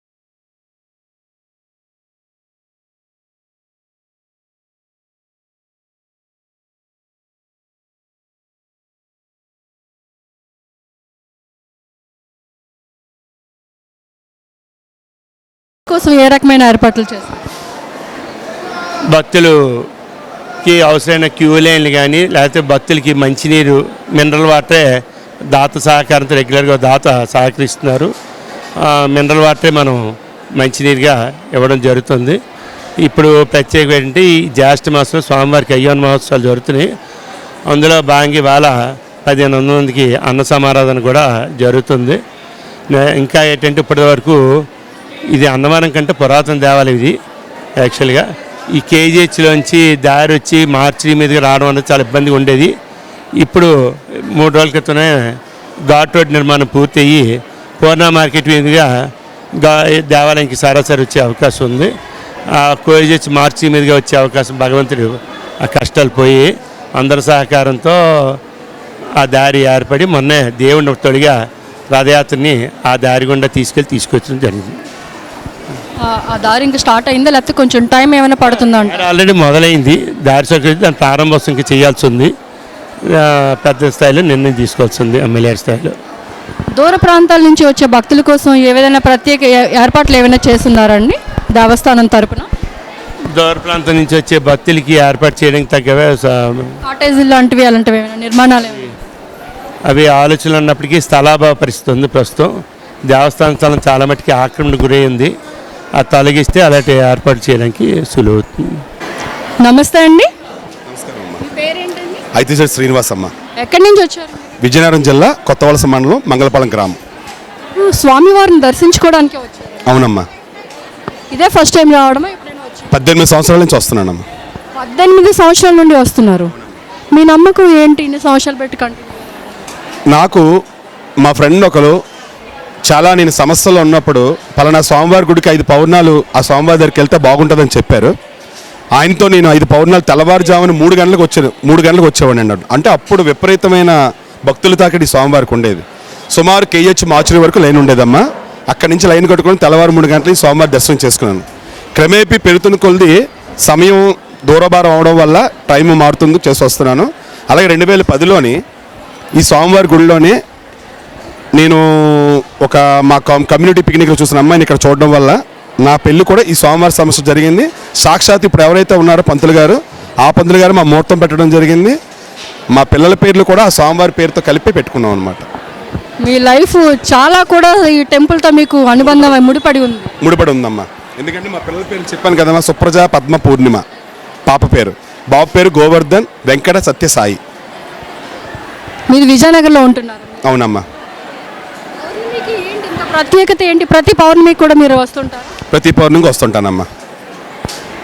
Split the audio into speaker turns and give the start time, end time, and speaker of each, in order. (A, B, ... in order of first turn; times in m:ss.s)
0:15.9-0:17.4 A
0:19.1-0:19.5 B
0:20.6-0:24.8 B
0:25.5-0:28.1 B
0:28.8-0:30.0 B
0:30.6-0:32.4 B
0:33.0-0:36.9 B
0:37.7-0:38.7 B
0:39.2-0:42.2 B
0:42.9-0:44.4 B
0:45.3-0:47.1 B
0:47.8-0:48.2 B
0:48.7-0:52.7 B
0:53.4-0:53.7 B
0:54.3-0:55.4 B
0:55.9-0:57.3 B
0:57.8-0:58.9 B
0:59.6-1:01.9 B
1:02.5-1:08.4 B
1:09.2-1:11.3 B
1:11.9-1:14.8 B
1:16.0-1:19.0 A
1:18.9-1:22.3 B
1:23.1-1:26.0 B
1:26.8-1:32.5 A
1:33.3-1:36.8 B
1:36.8-1:39.0 A
1:39.9-1:42.5 B
1:43.1-1:45.3 B
1:45.9-1:48.8 B
1:49.6-1:50.3 A
1:50.9-1:51.4 C
1:51.4-1:52.2 A
1:52.3-1:53.3 C
1:53.6-1:54.5 A
1:54.6-1:57.0 C
1:57.8-2:00.0 A
1:59.8-2:00.2 C
2:01.3-2:02.9 A
2:02.9-2:04.2 C
2:04.8-2:06.5 A
2:07.1-2:09.6 A
2:10.1-2:10.4 C
2:11.2-2:12.0 C
2:12.9-2:18.1 C
2:19.0-2:38.6 C
2:39.4-2:40.3 C
2:41.6-2:51.9 C
2:52.7-2:55.4 C
2:56.2-3:00.1 A
3:00.2-3:03.8 C
3:04.4-3:07.4 C
3:09.1-3:10.4 A
3:10.4-3:10.8 C
3:12.0-3:15.5 A
3:15.7-3:16.8 C